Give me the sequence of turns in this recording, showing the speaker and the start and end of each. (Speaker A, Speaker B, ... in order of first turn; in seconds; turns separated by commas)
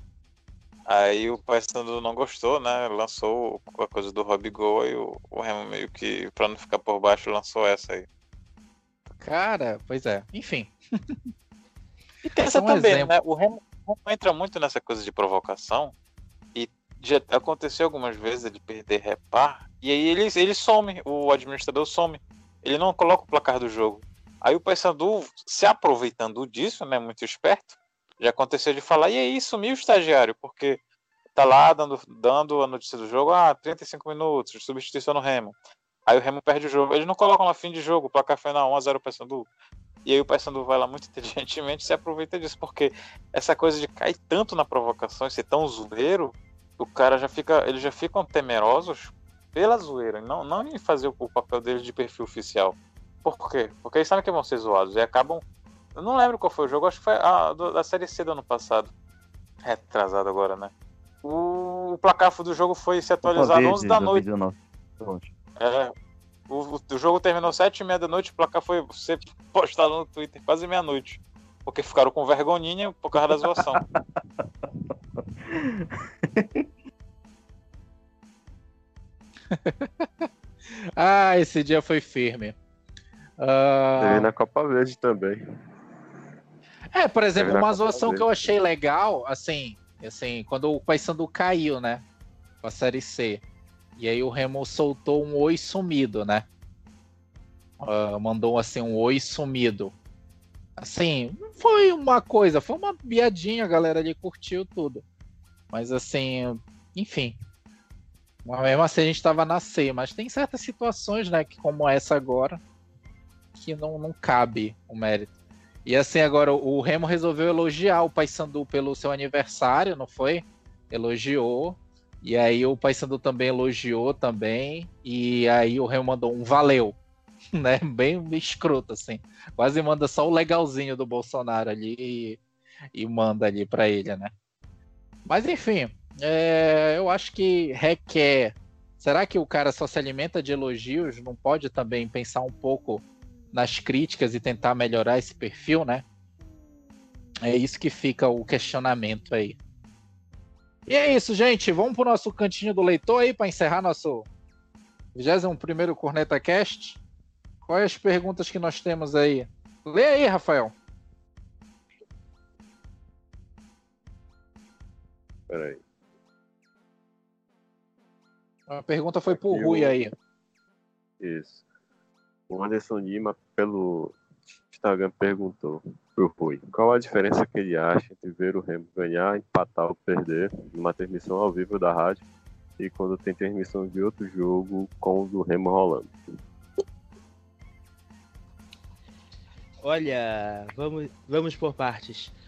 Speaker A: 0.9-8.1, Speaker B: 9.2-10.7, Speaker A: 12.2-15.9, Speaker B: 12.4-13.1, Speaker A: 16.6-30.8, Speaker A: 31.4-35.5, Speaker A: 36.1-39.5, Speaker A: 40.0-55.4, Speaker A: 56.0-58.9, Speaker A: 59.6-60.7, Speaker A: 61.2-64.2, Speaker C: 63.2-65.3, Speaker A: 65.6-65.9, Speaker A: 66.5-73.8, Speaker C: 75.2-76.7, Speaker B: 79.5-80.3, Speaker B: 81.0-82.5, Speaker B: 83.4-84.3, Speaker D: 84.0-85.4, Speaker B: 86.9-92.0, Speaker D: 87.4-88.5, Speaker B: 92.6-93.4, Speaker B: 94.0-96.5, Speaker B: 97.8-99.9, Speaker B: 100.8-105.0, Speaker B: 105.7-107.4, Speaker B: 108.5-112.6, Speaker B: 113.6-115.3, Speaker B: 115.8-127.0, Speaker B: 127.6-132.4, Speaker B: 132.9-134.3, Speaker B: 135.3-146.1, Speaker B: 147.4-149.6, Speaker B: 150.9-154.3, Speaker B: 155.2-157.0, Speaker B: 157.7-160.8, Speaker D: 165.5-165.8, Speaker B: 168.7-170.1, Speaker D: 169.3-169.9, Speaker D: 171.2-171.6, Speaker D: 172.5-182.2, Speaker D: 182.8-186.1, Speaker E: 189.8-192.3